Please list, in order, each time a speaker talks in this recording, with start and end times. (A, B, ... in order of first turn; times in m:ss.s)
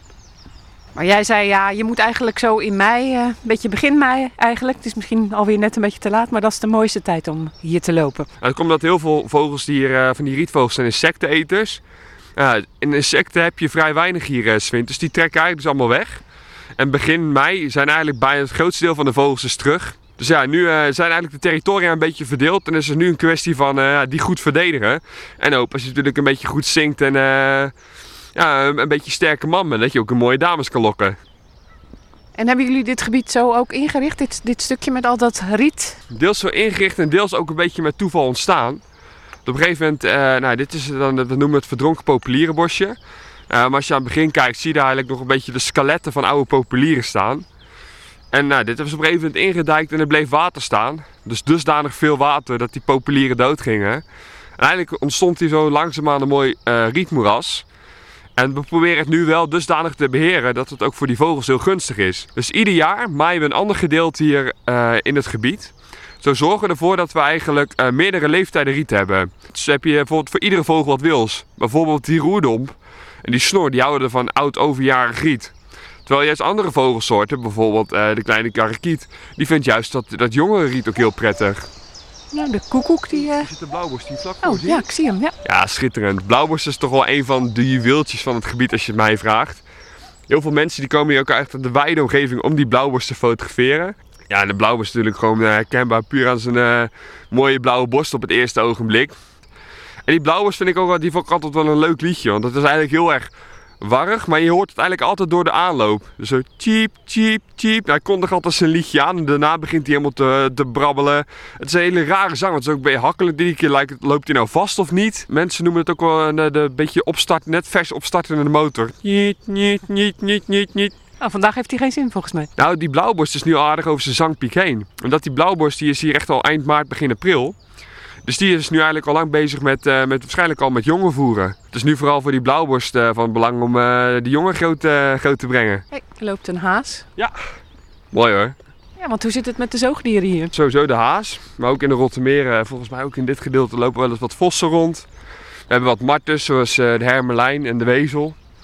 0:01.0-0:08.3 A
0:08.4-0:11.8 B
0:12.4-0:16.2 B
0:16.8-0:27.7 B
0:28.4-0:31.2 B
0:32.4-0:36.0 A
0:36.1-0:38.8 B
0:39.5-0:43.0 B
0:43.5-0:47.4 B
0:48.3-0:54.0 B
0:54.6-0:57.6 B
0:58.4-1:15.5 B
1:16.0-1:21.7 B
1:22.3-1:23.5 A
1:23.1-1:24.8 B
1:24.4-1:25.3 A
1:25.4-1:29.6 B
1:30.3-1:39.2 B
1:40.0-1:43.3 B
1:43.8-2:00.9 B
2:01.2-2:02.5 A
2:02.6-2:07.6 B
2:08.2-2:15.8 B
2:15.9-2:17.0 A
2:18.1-2:18.5 B
2:19.0-2:20.5 A
2:20.5-2:25.1 B
2:25.7-2:28.4 B